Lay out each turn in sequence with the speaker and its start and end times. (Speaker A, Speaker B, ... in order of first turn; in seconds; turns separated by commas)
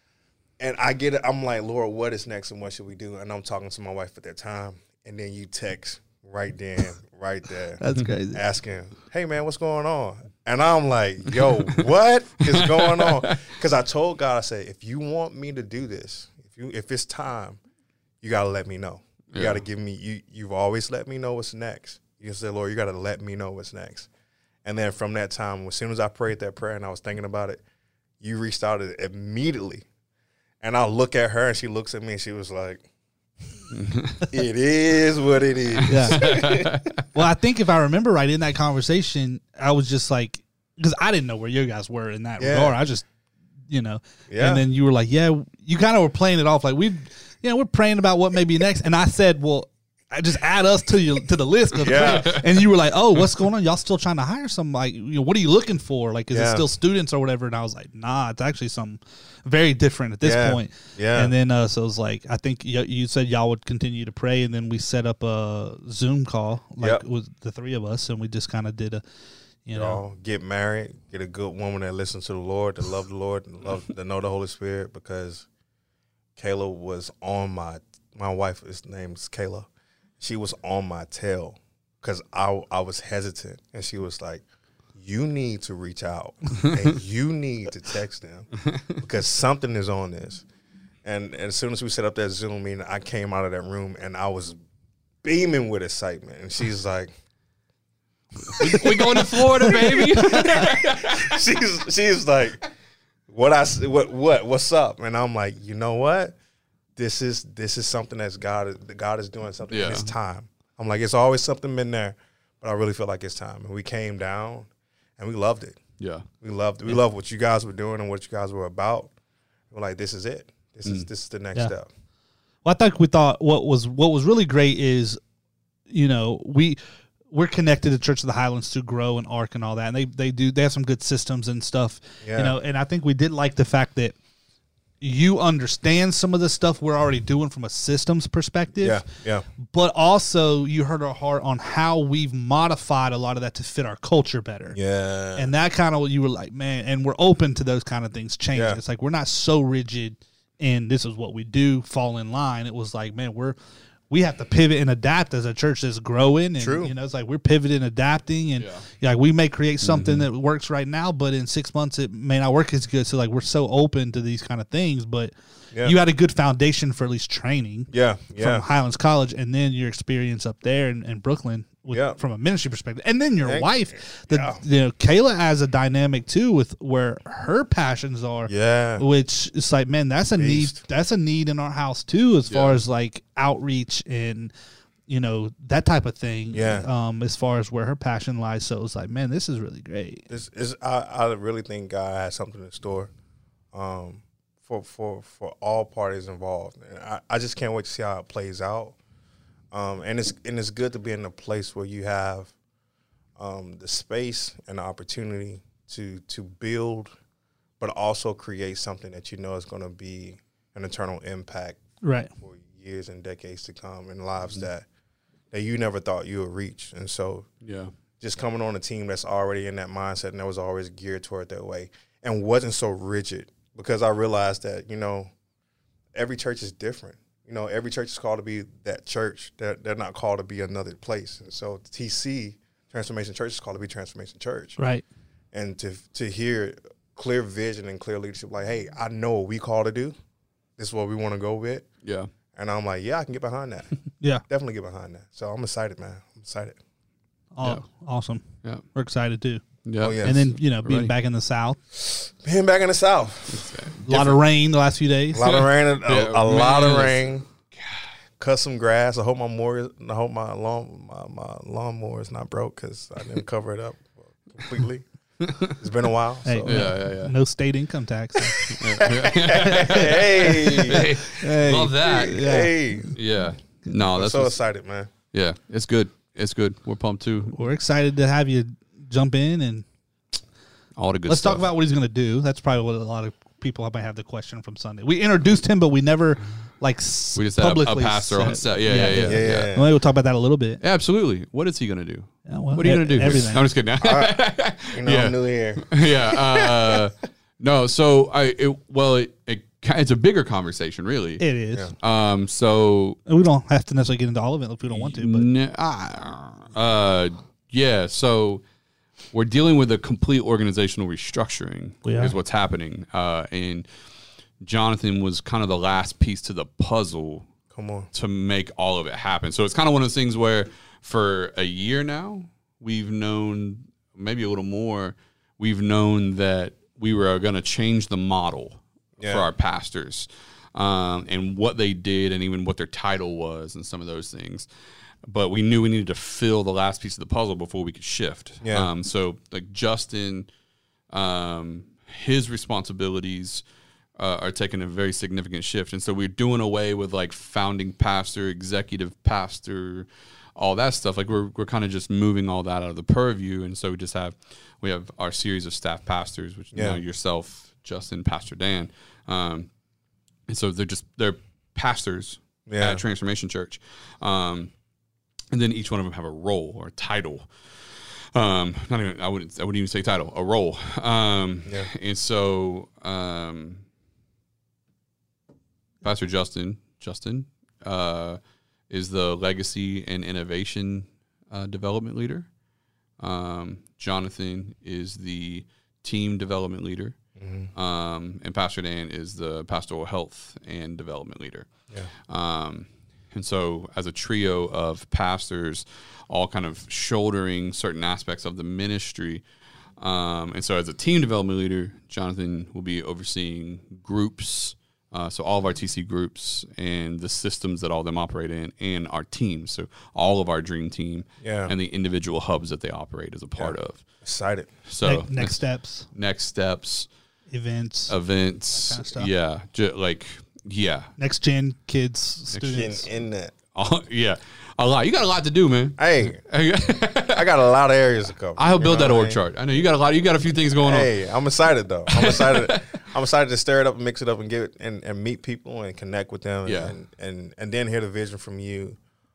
Speaker A: 0.6-7.8, Speaker B: 7.8-8.4, Speaker A: 8.3-17.6, Speaker C: 12.4-13.5, Speaker A: 18.2-24.1, Speaker C: 19.3-19.6, Speaker A: 24.6-27.6, Speaker A: 28.2-29.9, Speaker A: 30.6-32.8, Speaker C: 33.7-34.2, Speaker A: 34.2-36.8, Speaker C: 35.7-37.0, Speaker B: 35.9-36.4, Speaker B: 37.1-43.1, Speaker A: 42.4-42.8, Speaker B: 43.7-69.0, Speaker A: 44.3-44.6, Speaker A: 51.8-52.4, Speaker C: 51.9-52.4, Speaker A: 56.3-56.6, Speaker A: 60.2-61.3, Speaker B: 69.7-70.0, Speaker A: 69.7-75.5, Speaker A: 76.4-79.7, Speaker A: 80.2-84.4, Speaker A: 85.0-90.4, Speaker A: 91.0-94.6, Speaker A: 95.2-97.1, Speaker C: 98.5-101.4, Speaker A: 98.5-102.7, Speaker A: 103.3-106.3, Speaker A: 107.0-115.8, Speaker C: 109.7-110.1, Speaker C: 116.0-116.2, Speaker A: 116.4-119.1, Speaker A: 119.7-121.9, Speaker B: 122.6-125.2, Speaker B: 125.9-126.8, Speaker B: 127.3-134.1, Speaker A: 132.2-132.5, Speaker B: 135.0-139.0, Speaker A: 138.8-139.4, Speaker B: 139.7-144.8, Speaker A: 144.7-145.5, Speaker B: 145.3-153.6, Speaker A: 148.5-148.8, Speaker B: 154.1-165.3, Speaker A: 156.6-156.9, Speaker C: 158.6-158.8, Speaker C: 159.8-160.2, Speaker B: 165.8-184.5, Speaker A: 167.9-168.6, Speaker A: 171.9-172.2, Speaker A: 173.4-174.6, Speaker A: 178.5-179.0, Speaker A: 180.4-180.8, Speaker C: 182.5-182.8, Speaker B: 185.1-190.2, Speaker A: 186.5-186.9, Speaker A: 190.3-193.1, Speaker A: 193.7-198.9, Speaker A: 199.7-202.5, Speaker A: 203.4-207.1, Speaker A: 207.8-211.8, Speaker B: 212.0-212.3, Speaker A: 212.4-214.8, Speaker A: 215.5-217.5, Speaker C: 217.6-217.9, Speaker A: 218.2-225.3, Speaker A: 226.1-234.8, Speaker B: 234.8-235.0, Speaker A: 235.5-240.1, Speaker A: 240.8-241.8, Speaker C: 242.0-242.3, Speaker A: 242.5-243.9, Speaker A: 244.5-246.8, Speaker B: 247.5-249.6, Speaker C: 249.8-251.1, Speaker A: 250.0-250.4, Speaker B: 250.2-251.8, Speaker A: 251.9-253.7, Speaker C: 253.5-254.4, Speaker B: 254.0-255.4, Speaker A: 255.3-257.4, Speaker C: 255.4-258.0, Speaker A: 258.4-265.1, Speaker C: 265.4-265.8, Speaker A: 265.7-266.9, Speaker B: 266.4-268.7, Speaker C: 266.6-267.3, Speaker C: 268.6-272.4, Speaker A: 268.7-271.1, Speaker B: 270.4-272.7, Speaker A: 271.9-273.1, Speaker C: 273.1-274.6, Speaker A: 274.1-275.1, Speaker C: 275.3-277.6, Speaker B: 277.5-279.8, Speaker C: 280.9-281.7, Speaker B: 281.3-290.8, Speaker C: 287.4-289.7, Speaker A: 289.0-289.9, Speaker C: 290.8-301.4, Speaker B: 292.4-293.6, Speaker A: 294.0-294.4, Speaker A: 294.9-297.0, Speaker B: 301.4-301.9, Speaker C: 302.0-303.2, Speaker B: 303.3-305.5, Speaker C: 304.9-308.6, Speaker C: 309.3-313.9, Speaker B: 312.0-312.3, Speaker C: 314.6-317.5, Speaker A: 317.7-318.1, Speaker C: 318.1-334.7, Speaker A: 329.2-329.5, Speaker C: 335.3-340.5, Speaker A: 338.6-338.9, Speaker C: 341.1-343.6, Speaker C: 344.2-359.7, Speaker A: 356.7-357.0, Speaker C: 360.5-364.7, Speaker A: 362.7-363.0, Speaker C: 365.5-367.5, Speaker C: 368.3-373.8, Speaker C: 376.0-378.4, Speaker C: 378.9-382.5, Speaker C: 383.2-387.1, Speaker A: 387.4-387.7, Speaker C: 387.7-391.7, Speaker C: 392.3-399.4, Speaker C: 400.0-414.0, Speaker A: 411.4-411.7, Speaker A: 413.6-414.7, Speaker C: 414.9-415.6, Speaker B: 415.0-416.1, Speaker C: 416.1-417.1, Speaker B: 417.5-418.1, Speaker C: 418.1-421.1, Speaker B: 418.7-419.3, Speaker B: 421.2-423.1, Speaker A: 422.6-423.5, Speaker C: 423.7-427.5, Speaker A: 426.0-426.4, Speaker A: 427.3-429.4, Speaker C: 428.6-431.1, Speaker A: 430.8-439.0, Speaker C: 432.1-432.9, Speaker C: 436.6-436.9